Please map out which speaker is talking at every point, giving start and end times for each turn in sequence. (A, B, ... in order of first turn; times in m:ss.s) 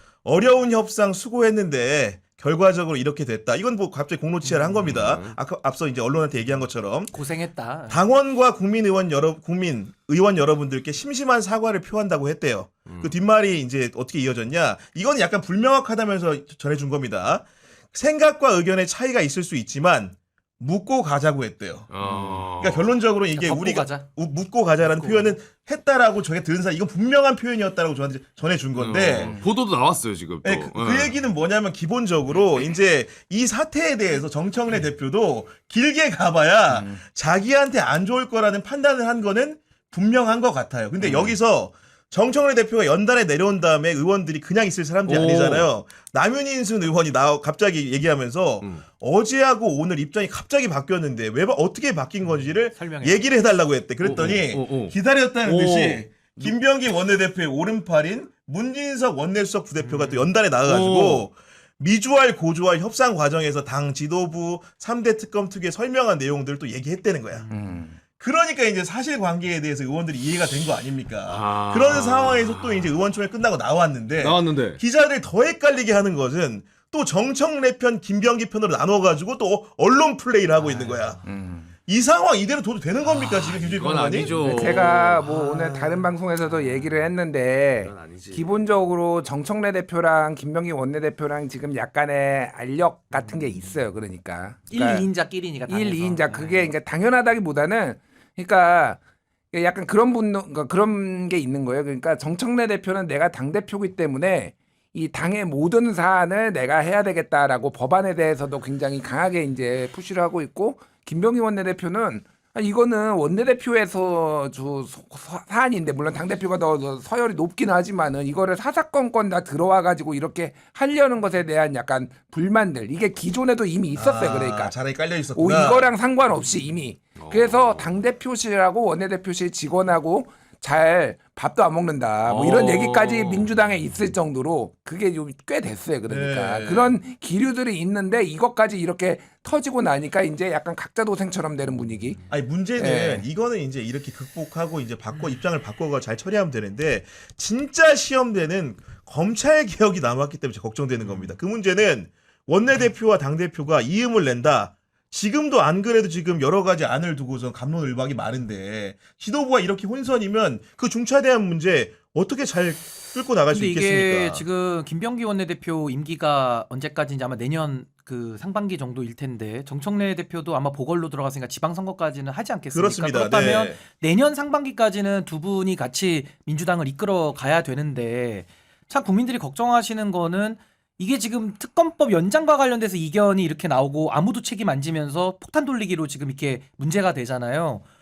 0:00.2-0:07.2 A
0:04.7-0:05.4 B
0:07.1-0:08.0 C
0:07.9-0:29.4 A
0:21.9-0:22.9 B
0:23.3-0:24.1 C
0:24.8-0:25.4 C
0:28.8-0:31.2 B
0:30.4-1:07.4 A
0:41.0-0:41.4 B
0:45.1-0:45.7 B
0:52.7-0:53.2 C
0:54.0-0:56.2 B
0:59.8-1:00.2 C
1:00.6-1:01.2 B
1:07.3-1:07.6 C
1:07.5-1:08.0 D
1:08.2-1:21.2 A
1:11.3-1:12.9 B
1:14.2-1:14.8 B
1:20.6-1:21.1 B
1:21.2-1:21.7 D
1:21.8-1:24.4 A
1:23.1-1:25.8 B
1:24.3-1:35.1 D
1:27.8-1:28.5 B
1:34.7-1:36.7 C
1:35.7-1:39.0 D
1:39.5-2:04.7 D
2:03.9-2:05.9 A
2:05.3-2:22.2 D
2:07.2-2:08.0 B
2:12.2-2:13.5 B
2:16.1-2:17.0 A
2:22.3-2:44.4 A
2:22.8-2:23.2 D
2:43.5-3:07.8 C
2:52.7-2:53.8 A